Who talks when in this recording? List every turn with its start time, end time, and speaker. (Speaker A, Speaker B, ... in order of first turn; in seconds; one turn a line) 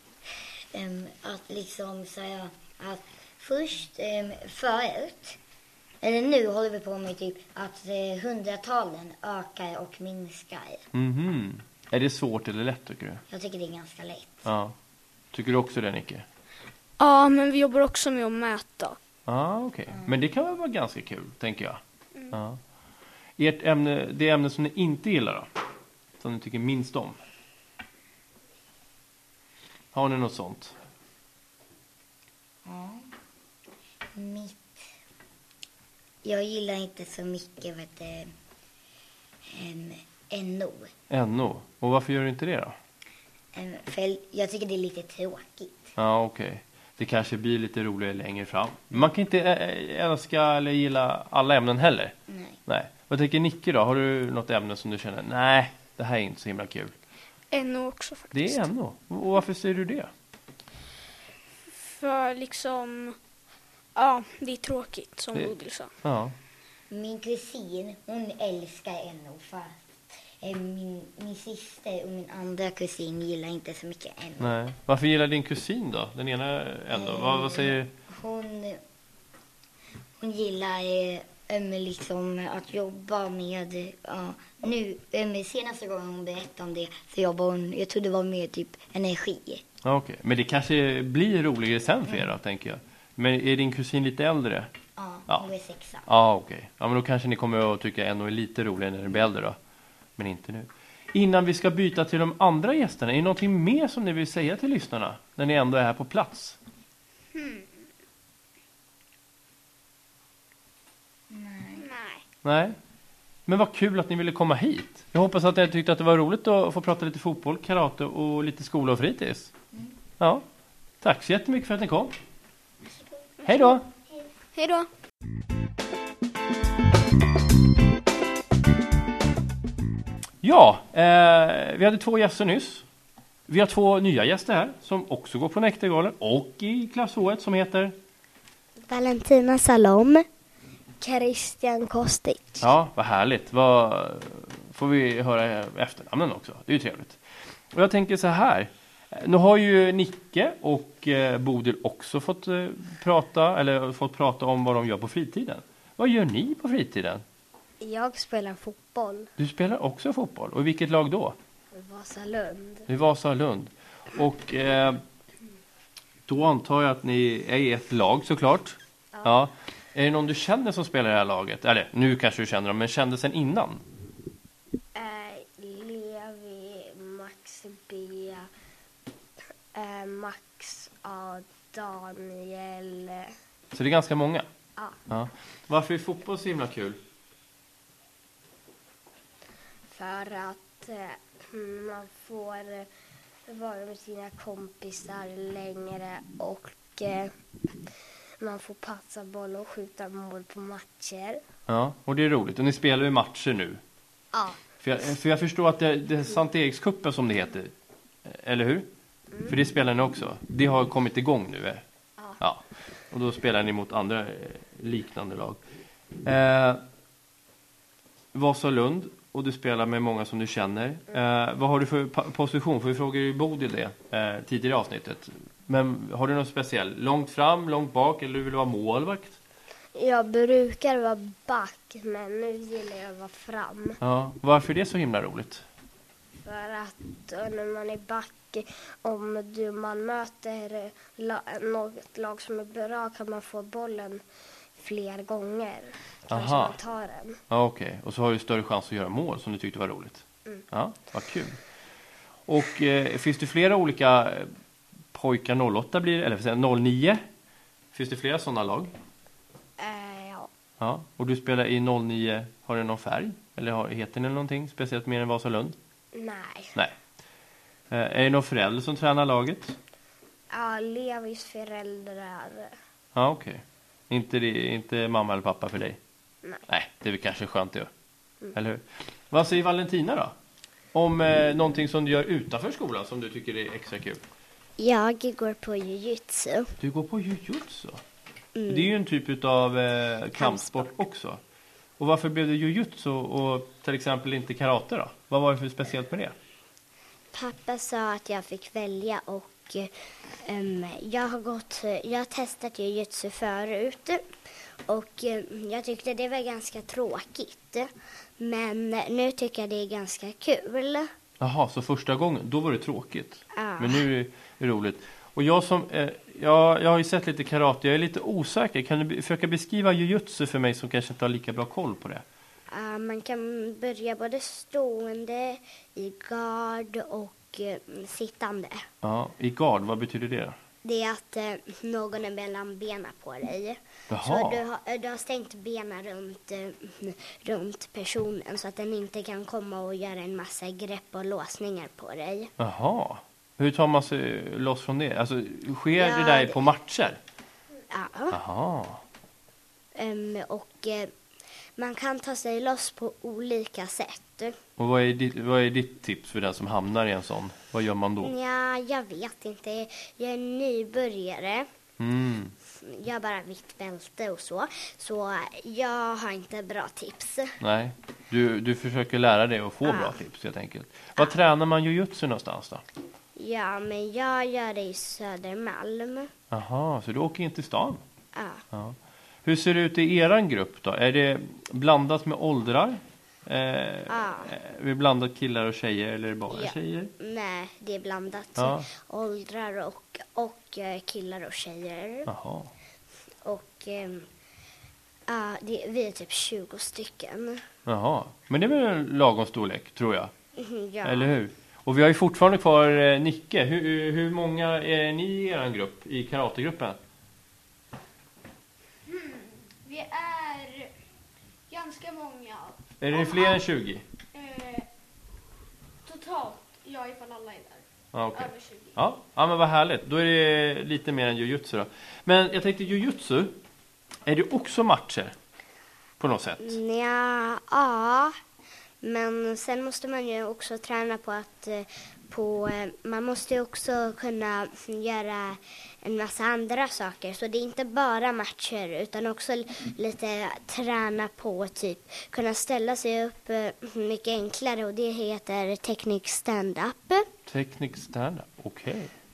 Speaker A: 0.7-5.4
Speaker A: 6.0-10.8
Speaker B: 10.9-13.2
Speaker A: 13.3-14.5
Speaker B: 14.5-14.7
Speaker B: 15.3-16.2
Speaker C: 17.0-19.0
Speaker B: 19.3-21.8
Speaker B: 22.3-22.6
Speaker B: 23.4-25.5
Speaker B: 26.2-27.2
Speaker B: 29.9-30.8
Speaker A: 32.6-33.1
Speaker A: 34.1-34.9
Speaker A: 36.2-38.3
Speaker A: 39.5-40.9
Speaker B: 41.1-42.8
Speaker A: 43.5-45.9
Speaker B: 46.0-52.1
Speaker A: 52.3-52.6
Speaker B: 52.7-56.9
Speaker C: 57.5-58.6
Speaker B: 58.3-60.1
Speaker C: 61.7-63.2
Speaker C: 64.0-65.9
Speaker B: 65.3-66.3
Speaker A: 66.9-74.6
Speaker B: 74.4-77.9
Speaker A: 76.9-78.8
Speaker A: 80.2-89.6
Speaker B: 89.8-94.7
Speaker A: 95.0-96.1
Speaker B: 96.1-99.6
Speaker B: 100.2-106.6
Speaker C: 107.3-107.7
Speaker A: 111.3-111.8
Speaker C: 111.8-112.2
Speaker B: 112.4-112.8
Speaker B: 113.5-119.5
Speaker B: 121.0-122.1
Speaker C: 123.5-123.8
Speaker B: 123.5-123.8
Speaker C: 124.5-124.9
Speaker B: 130.4-132.8
Speaker B: 133.5-137.9
Speaker D: 138.9-140.2
Speaker E: 141.0-142.6
Speaker B: 142.6-147.2
Speaker B: 147.7-157.2
Speaker E: 157.8-159.3
Speaker B: 159.4-161.4
Speaker E: 161.7-162.9
Speaker B: 162.9-165.0
Speaker B: 166.3-173.8
Speaker E: 174.9-178.5
Speaker E: 179.7-183.3
Speaker B: 183.7-184.5
Speaker B: 185.1-187.0
Speaker E: 189.9-192.9
Speaker E: 193.5-197.3
Speaker E: 198.4-201.4
Speaker B: 201.7-203.8
Speaker E: 204.3-204.6
Speaker B: 204.8-207.7
Speaker B: 208.2-208.9
Speaker B: 209.4-211.8
Speaker B: 212.4-215.6
Speaker B: 216.2-216.8
Speaker B: 218.3-229.4
Speaker E: 229.9-234.0
Speaker B: 234.0-235.6
Speaker E: 236.4-244.2
Speaker E: 244.8-247.4
Speaker B: 246.3-246.8
Speaker B: 247.5-251.6
Speaker B: 252.5-254.5
Speaker B: 255.1-257.2
Speaker B: 257.9-258.9
Speaker E: 259.8-260.5
Speaker B: 260.8-265.8
Speaker E: 266.1-266.7
Speaker B: 267.9-269.8
Speaker E: 270.5-272.7
Speaker B: 273.1-276.0
Speaker B: 276.7-277.9
Speaker B: 278.5-280.3
Speaker B: 280.9-284.2
Speaker D: 284.8-286.7
Speaker B: 286.8-288.0
Speaker D: 288.6-288.9
Speaker B: 288.7-291.4
Speaker D: 290.4-290.9
Speaker B: 292.0-296.4
Speaker D: 297.3-299.9
Speaker D: 300.4-304.2
Speaker D: 304.9-311.1
Speaker B: 311.4-322.2
Speaker D: 313.6-314.0
Speaker D: 322.7-328.8
Speaker B: 329.0-330.6
Speaker D: 330.8-342.5
Speaker B: 334.1-334.6
Speaker B: 342.6-347.2
Speaker D: 346.0-346.6
Speaker D: 347.9-348.4
Speaker B: 348.3-349.0
Speaker D: 349.9-351.1
Speaker D: 351.8-354.6
Speaker B: 354.8-358.3
Speaker D: 358.2-361.7
Speaker B: 362.0-362.6
Speaker D: 362.8-367.6
Speaker B: 367.6-372.8
Speaker D: 369.8-370.2
Speaker D: 373.4-376.3
Speaker B: 376.5-378.0
Speaker D: 378.4-378.6
Speaker B: 378.7-387.1
Speaker D: 384.1-384.5
Speaker D: 386.5-392.3
Speaker B: 388.6-388.9
Speaker B: 392.3-392.7
Speaker D: 393.4-394.3
Speaker D: 395.3-397.6
Speaker B: 397.9-400.3
Speaker D: 400.6-401.3
Speaker B: 401.0-407.0
Speaker C: 409.1-410.9
Speaker C: 411.7-413.6
Speaker B: 413.0-414.0
Speaker C: 414.3-414.9
Speaker C: 416.1-419.0
Speaker B: 418.1-423.6
Speaker B: 424.3-425.4
Speaker B: 426.2-426.8
Speaker D: 426.6-428.4
Speaker D: 429.0-447.3
Speaker B: 447.5-449.1